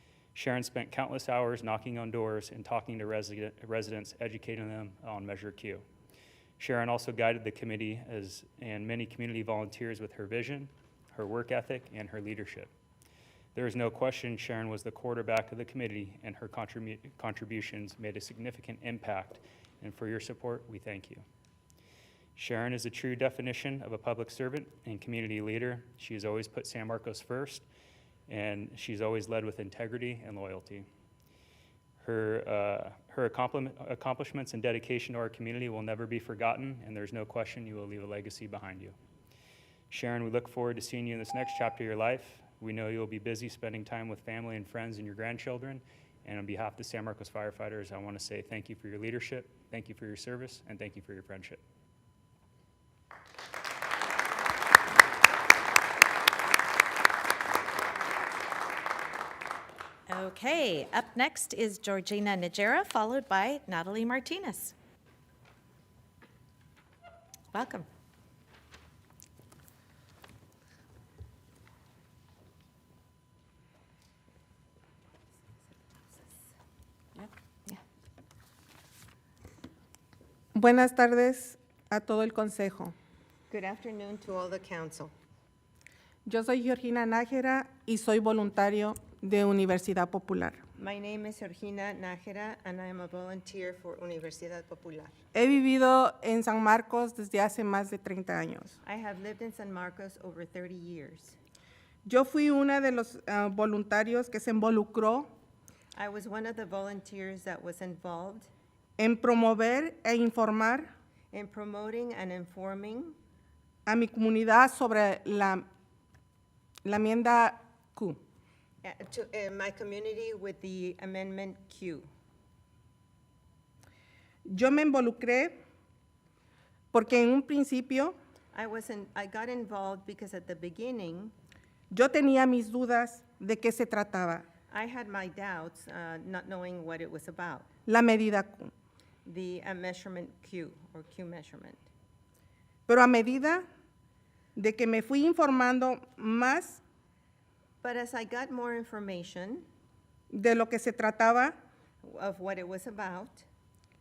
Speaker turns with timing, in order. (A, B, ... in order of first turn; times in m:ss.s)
0:00.4-0:05.8 A
0:06.6-0:12.7 A
0:13.6-0:21.2 A
0:22.4-0:27.6 A
0:28.3-0:30.9 A
0:32.0-0:39.0 A
0:39.9-0:51.6 A
1:00.1-1:04.8 B
1:07.5-1:07.9 B
1:17.2-1:17.8 B
1:20.6-1:22.9 C
1:23.5-1:25.1 D
1:26.2-1:30.6 C
1:30.8-1:35.2 D
1:35.3-1:38.8 C
1:38.8-1:41.4 D
1:42.1-1:45.3 C
1:46.0-1:48.5 D
1:49.0-1:50.9 C
1:51.3-1:53.2 D
1:53.9-1:55.7 C
1:56.8-1:58.2 C
1:58.8-2:02.1 D
2:04.5-2:05.6 C
2:06.9-2:08.2 C
2:08.5-2:11.3 D
2:11.9-2:14.5 C
2:14.7-2:17.7 D
2:17.9-2:18.7 C
2:19.2-2:21.8 D
2:22.9-2:23.6 C
2:24.6-2:26.8 C
2:27.8-2:29.7 D
2:30.3-2:31.5 C
2:32.0-2:33.5 D